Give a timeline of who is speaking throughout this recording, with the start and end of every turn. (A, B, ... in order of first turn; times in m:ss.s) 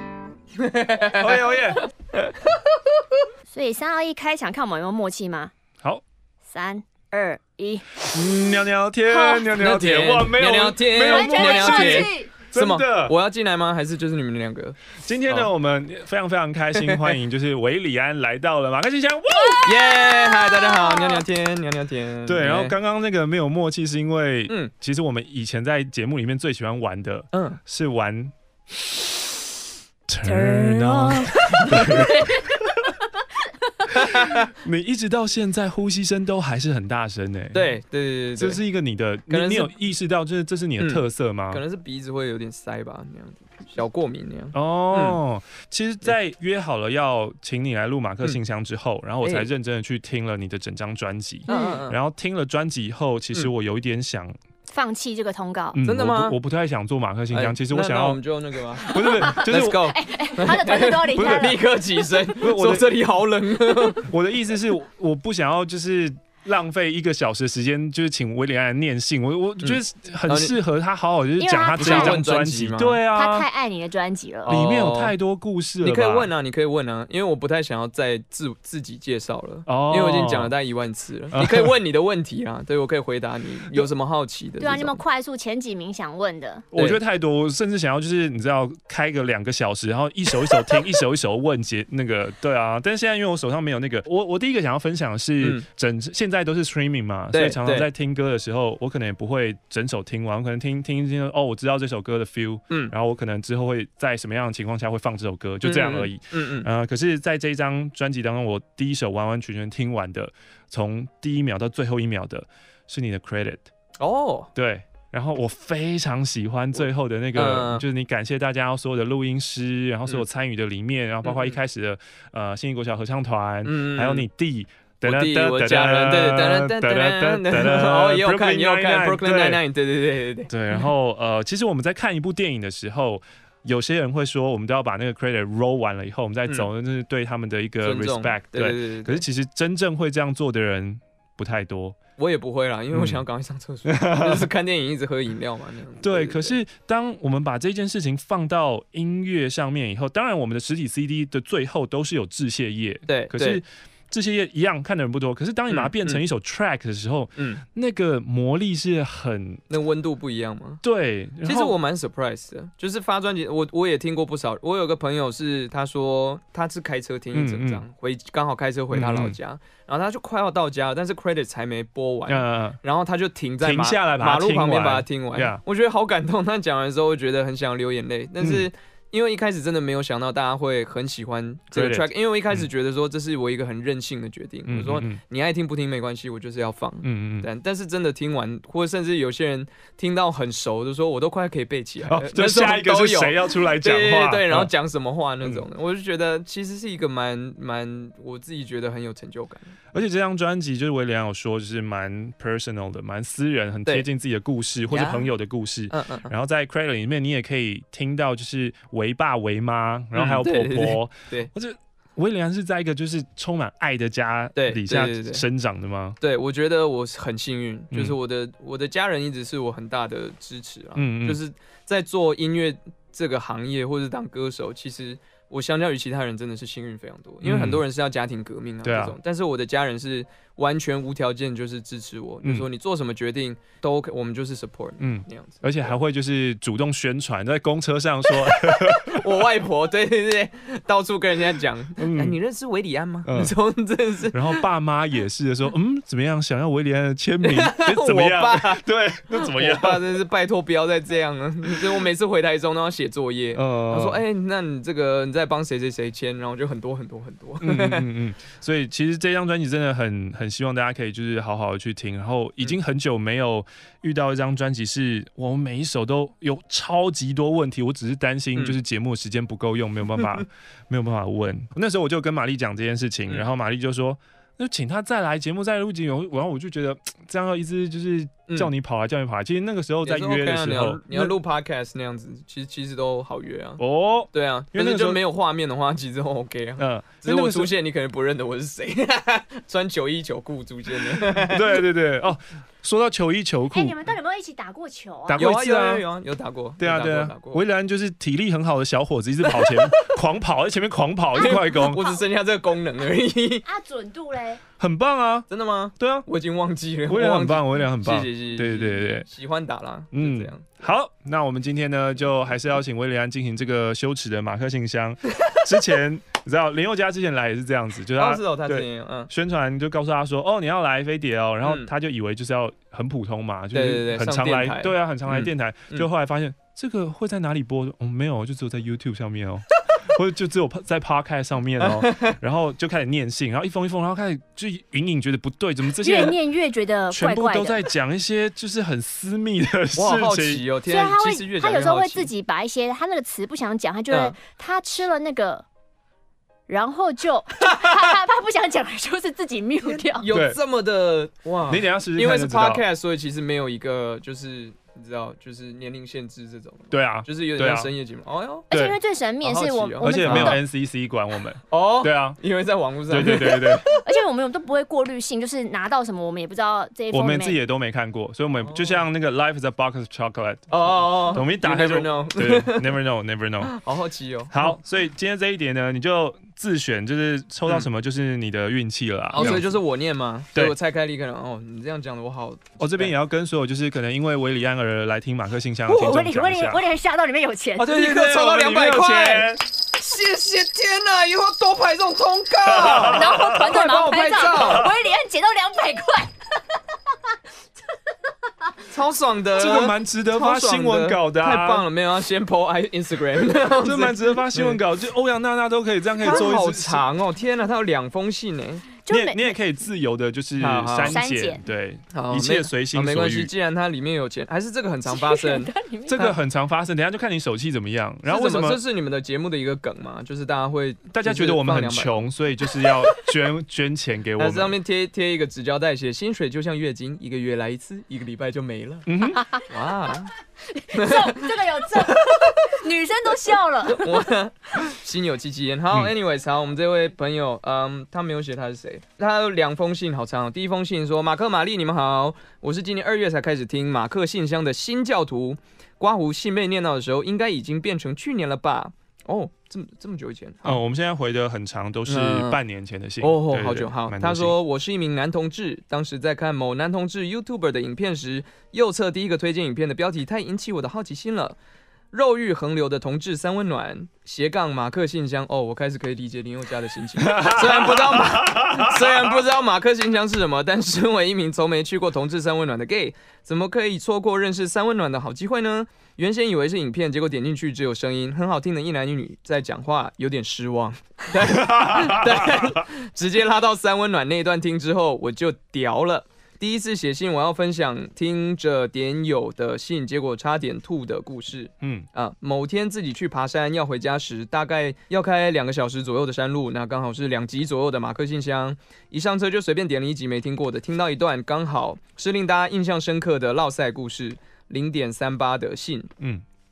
0:00.6-0:02.4 A
0:01.2-0:01.9 B
0:03.5-0:05.5 C
0:06.5-0:08.1 C
0:08.0-0:13.1 B
0:09.1-0:09.5 C
0:09.6-0:14.8 A
0:11.1-0:12.3 C
0:15.0-0:20.0 B
0:16.8-0:17.2 A
0:19.5-0:21.2 C
0:19.6-0:22.8 A
0:22.2-0:29.0 B
0:27.3-0:27.6 A
0:30.1-0:32.6 B
0:30.2-0:32.1 C
0:31.7-0:32.2 A
0:33.9-0:37.7 B
0:34.0-0:34.5 A
0:37.5-0:38.6 A
0:38.4-0:41.6 B
0:39.3-0:39.7 A
0:40.8-0:45.2 A
0:44.5-0:54.4 B
0:49.2-0:49.5 A
0:51.5-0:52.0 A
0:51.5-0:51.8 C
0:54.7-0:55.8 C
0:55.7-0:58.2 B
0:55.8-0:56.4 A
0:57.3-1:04.1 A
0:58.8-1:00.0 B
0:58.9-1:01.6 C
1:01.2-1:01.5 B
1:02.4-1:02.9 B
1:04.0-1:13.5 B
1:09.6-1:10.6 A
1:11.4-1:12.2 C
1:11.8-1:13.0 A
1:13.1-1:14.6 C
1:14.4-1:15.1 A
1:14.5-1:16.3 B
1:15.8-1:25.0 A
1:19.7-1:20.5 B
1:21.3-1:21.7 B
1:24.6-1:26.7 C
1:26.7-1:53.7 B
1:35.4-1:35.6 A
1:37.3-1:37.9 A
1:45.6-1:46.7 A
1:54.0-1:54.5 A
1:54.6-2:09.6 B
1:57.4-1:57.8 A
2:01.2-2:01.6 A
2:03.6-2:04.3 A
2:05.0-2:10.5 A
2:10.5-2:22.0 B
2:17.8-2:19.2 A
2:22.2-2:26.6 A
2:22.9-2:23.2 B
2:23.9-2:24.5 B
2:26.0-2:39.6 B
2:33.1-2:33.6 A
2:35.7-2:36.2 A
2:37.4-2:37.6 A
2:39.7-2:40.8 A
2:40.8-2:41.8 B
2:41.4-3:19.8 A
2:47.3-2:47.8 B
2:48.9-2:49.4 B
2:52.3-2:52.8 B
2:53.6-2:55.6 B
2:58.4-2:58.7 B
3:01.7-3:02.7 B
3:04.7-3:05.2 B
3:07.0-3:07.5 B
3:12.0-3:14.7 B
3:19.9-3:36.2 B
3:24.9-3:25.3 A
3:25.9-3:26.3 A
3:30.1-3:31.5 A
3:34.6-3:35.4 A
3:36.2-3:56.0 A
3:41.0-3:41.4 B
3:47.4-3:47.8 B
3:48.8-3:49.2 B
3:52.4-3:52.7 B
3:55.0-3:59.4 B
3:58.5-4:04.6 A
4:02.0-4:02.4 B
4:03.2-4:03.6 B
4:04.3-4:10.2 B
4:07.4-4:18.1 A
4:13.5-4:14.2 B
4:17.6-4:41.3 B
4:40.0-4:43.8 A
4:43.8-4:45.2 B
4:44.3-4:51.8 A
4:46.8-4:47.7 B
4:51.4-4:54.0 B
4:53.7-4:55.5 C
4:55.3-4:56.0 B
4:55.4-4:57.6 A
4:56.8-5:02.0 B
4:59.5-5:00.1 A
5:01.4-5:03.6 A
5:01.5-5:02.2 C
5:03.6-5:04.6 C
5:04.8-5:05.5 B
5:05.5-5:10.9 A
5:06.0-5:06.3 B
5:07.1-5:09.3 B
5:10.1-5:36.4 B
5:15.3-5:15.6 A
5:18.2-5:19.3 A
5:21.6-5:21.9 A
5:23.7-5:26.1 A
5:31.8-5:32.4 A
5:36.0-5:37.8 C
5:37.1-5:40.6 B
5:40.0-5:42.3 A
5:40.9-5:45.7 C
5:46.7-5:50.3 C
5:49.9-5:58.7 A
5:50.3-5:50.6 B
5:51.7-5:52.8 B
5:56.9-5:57.9 B
5:58.7-5:59.0 B
5:58.7-6:00.6 C
5:59.4-6:00.6 A
6:00.0-6:02.4 B
6:01.7-6:04.0 A
6:03.1-6:03.9 B
6:03.8-6:07.6 C
6:07.1-6:13.8 B
6:08.6-6:09.0 A
6:10.7-6:13.0 A
6:13.6-6:14.8 A
6:14.5-6:19.8 B
6:19.3-6:23.1 A
6:22.8-6:26.8 B
6:25.9-6:27.9 C
6:27.8-6:29.6 B
6:27.8-6:34.9 A
6:32.6-6:33.8 B
6:32.8-6:36.4 C
6:34.6-6:34.9 B
6:38.9-6:44.8 A
6:39.6-6:41.9 B
6:43.8-6:47.0 B
6:46.2-6:48.9 A
6:49.0-6:49.5 C
6:49.1-6:53.5 B
6:50.6-6:51.2 A
6:51.1-6:51.6 C
6:52.1-6:56.4 A
6:55.1-6:56.3 C
6:56.1-6:58.8 B
6:58.2-7:02.3 A
7:01.1-7:04.8 B
7:04.4-7:09.1 A
7:09.1-7:09.4 B
7:09.3-7:09.6 C
7:09.7-7:10.3 A
7:10.7-7:14.3 C
7:11.0-7:12.9 A
7:13.9-7:30.8 A
7:30.6-7:34.6 B
7:32.1-7:32.6 A
7:33.2-7:41.6 A
7:42.1-8:26.1 A
7:47.2-7:49.4 B
8:01.4-8:02.8 B